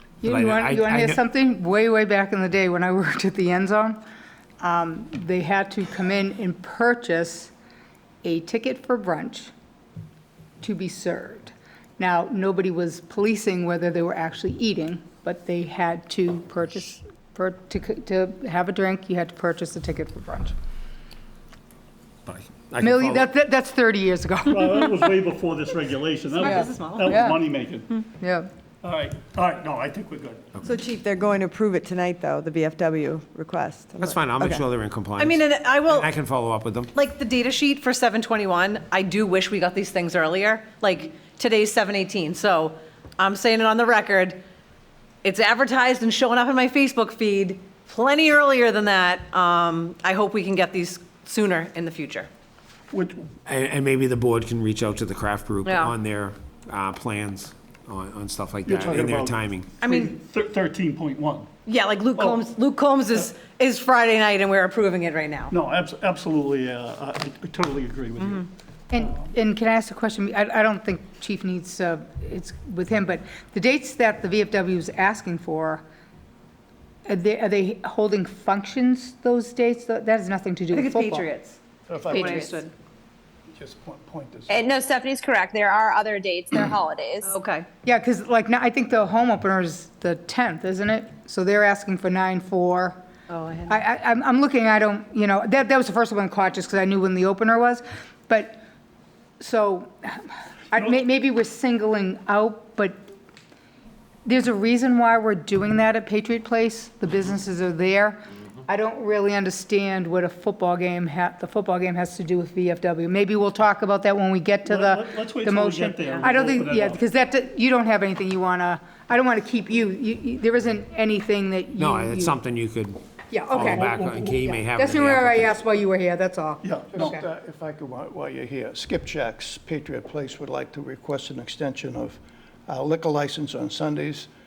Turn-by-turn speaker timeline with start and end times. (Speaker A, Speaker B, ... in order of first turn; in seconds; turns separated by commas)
Speaker A: 0.2-4.0, Speaker B: 0.2-1.2, Speaker A: 4.6-7.5, Speaker A: 8.2-9.5, Speaker A: 10.6-20.5, Speaker B: 22.2-23.3, Speaker A: 22.8-25.1, Speaker C: 24.5-28.0, Speaker D: 26.3-27.1, Speaker A: 26.4-27.4, Speaker A: 28.1-28.5, Speaker C: 28.8-30.6, Speaker E: 30.6-34.6, Speaker B: 34.0-36.9, Speaker D: 35.2-36.1, Speaker D: 36.9-44.4, Speaker D: 45.2-52.3, Speaker C: 52.9-53.2, Speaker B: 53.5-59.7, Speaker D: 55.6-55.9, Speaker C: 58.7-61.5, Speaker D: 59.8-60.1, Speaker D: 61.7-65.5, Speaker C: 62.1-62.5, Speaker C: 65.5-68.5, Speaker D: 68.2-68.4, Speaker A: 68.9-75.8, Speaker A: 77.0-81.3, Speaker D: 80.7-82.7, Speaker F: 81.9-82.6, Speaker A: 82.1-82.6, Speaker F: 83.5-84.7, Speaker G: 84.5-87.3, Speaker D: 87.2-87.7, Speaker A: 87.8-93.0, Speaker D: 93.3-93.8, Speaker A: 93.7-98.6, Speaker A: 99.4-103.0, Speaker A: 104.2-122.4, Speaker C: 114.7-117.0, Speaker B: 121.8-125.5, Speaker A: 123.3-127.2, Speaker C: 123.5-124.5, Speaker C: 126.6-127.2, Speaker F: 126.9-134.3